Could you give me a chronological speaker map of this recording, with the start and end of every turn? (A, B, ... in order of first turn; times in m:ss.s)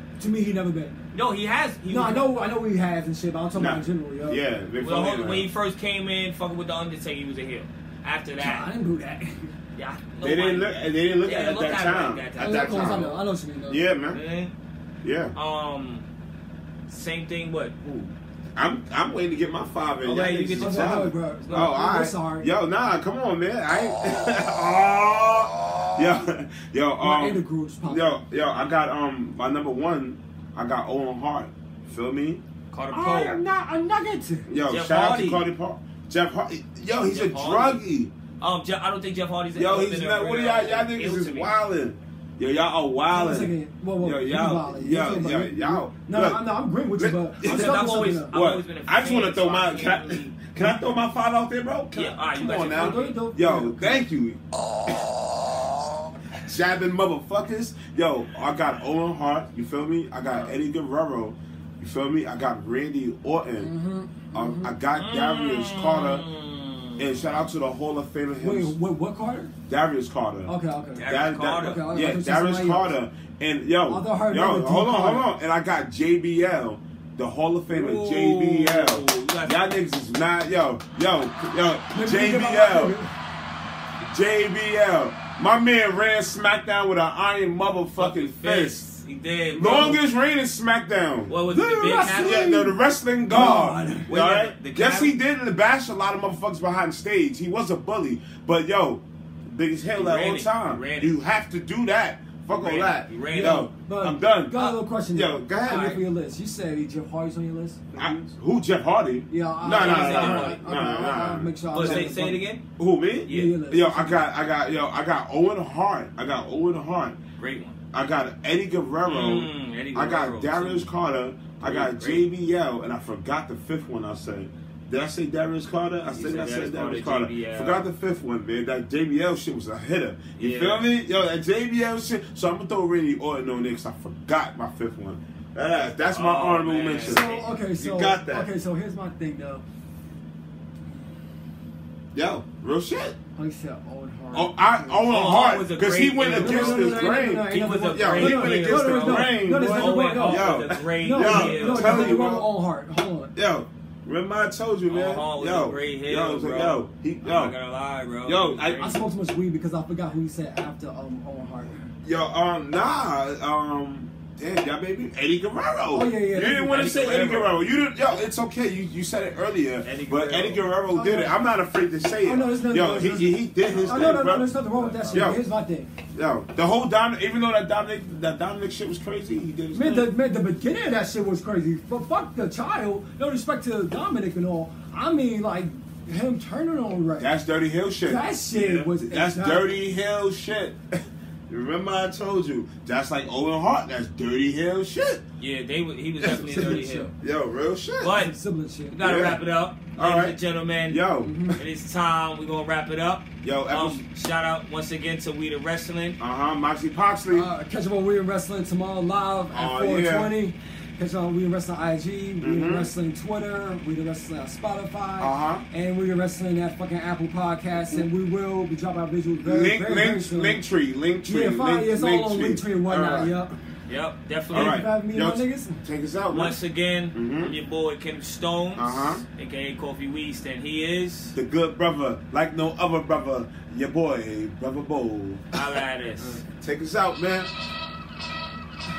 0:00.2-0:01.0 A
0:01.1-0:02.4 B
0:01.9-0:04.4 A
0:03.5-0:05.5 C
0:04.8-0:08.7 B
0:08.4-0:09.5 A
0:09.8-0:13.2 B
0:10.2-0:13.1 C
0:12.4-0:13.8 A
0:13.7-0:14.2 C
0:14.1-0:14.5 B
0:15.0-0:15.3 C
0:15.3-0:16.1 B
0:16.9-0:18.1 B
0:18.6-0:32.4 C
0:20.0-0:21.7 B
0:20.6-0:22.5 A
0:27.0-0:28.2 A
0:32.7-0:33.4 B
0:32.9-0:34.5 A
0:34.5-0:38.1 C
0:34.7-0:35.4 B
0:37.0-0:37.8 B
0:38.4-0:41.5 B
0:39.5-0:46.4 C
0:43.1-0:48.3 A
0:47.0-0:54.4 C
0:47.4-0:50.5 B
0:51.9-0:53.2 B
0:52.7-0:54.1 A
0:56.4-1:03.7 C
1:00.3-1:00.6 B
1:03.6-1:04.7 A
1:04.3-1:06.2 C
1:04.9-1:07.5 B
1:07.0-1:08.7 C
1:08.4-1:09.5 A
1:09.7-1:10.5 C
1:10.5-1:11.1 A
1:10.9-1:11.9 B
1:11.0-1:23.0 C
1:11.6-1:13.0 A
1:13.9-1:15.3 A
1:17.7-1:19.8 B
1:21.9-1:23.1 A
1:24.0-1:28.8 C
1:28.0-1:30.0 B
1:29.5-1:31.3 C
1:31.3-1:32.4 B
1:31.4-1:34.1 A
1:32.0-1:46.0 C
1:33.4-1:35.2 B
1:39.9-1:41.2 B
1:42.5-1:43.7 B
1:43.3-1:48.3 A
1:45.6-1:46.0 B
1:48.0-1:52.1 C
1:49.3-1:52.5 A
1:49.7-1:50.6 B
1:51.7-1:52.6 B
1:52.8-1:57.2 C
1:53.2-1:53.6 B
1:53.3-1:54.3 A
1:57.4-1:57.8 B
1:57.9-2:18.5 C
1:59.0-2:00.9 B
2:01.6-2:02.3 B
2:06.0-2:07.9 B
2:10.4-2:10.9 B
2:16.1-2:17.4 B
2:17.0-2:19.6 A
2:22.1-2:23.2 C
2:23.4-2:25.2 A
2:24.3-2:32.5 C
2:25.1-2:32.3 B
2:26.2-2:33.3 A
2:33.3-2:37.5 C
2:34.9-2:39.1 B
2:38.2-2:38.8 C
2:38.8-2:41.9 A
2:42.0-2:54.5 C
2:45.9-2:46.8 A
2:46.6-2:47.6 B
2:49.8-2:50.7 B
2:50.9-2:51.4 A
2:52.2-2:55.9 A
2:53.6-2:55.4 B
2:55.1-2:55.4 C
2:56.1-3:00.1 C
2:59.7-3:07.3 A
3:07.2-3:10.8 C
3:08.0-3:09.8 A
3:11.5-3:15.2 C
3:15.4-3:17.1 B
3:16.2-3:18.2 C
3:16.3-3:17.1 A
3:18.0-3:18.3 B
3:18.1-3:19.0 A
3:18.9-3:26.2 B
3:19.0-3:19.4 C
3:19.9-3:21.6 C
3:21.2-3:21.6 A
3:23.4-3:24.0 C
3:26.2-3:27.5 C
3:27.3-3:40.6 A
3:29.5-3:30.3 C
3:32.4-3:32.9 C
3:35.2-3:35.6 C
3:39.4-3:43.3 C
3:41.2-3:43.6 A
3:43.9-3:44.8 B
3:44.5-3:45.8 A
3:44.5-3:46.6 C
3:46.3-3:51.4 B
3:47.1-3:47.5 C
3:48.8-3:49.2 C
3:51.3-3:55.5 C
3:55.5-3:56.4 B
3:56.6-3:57.5 C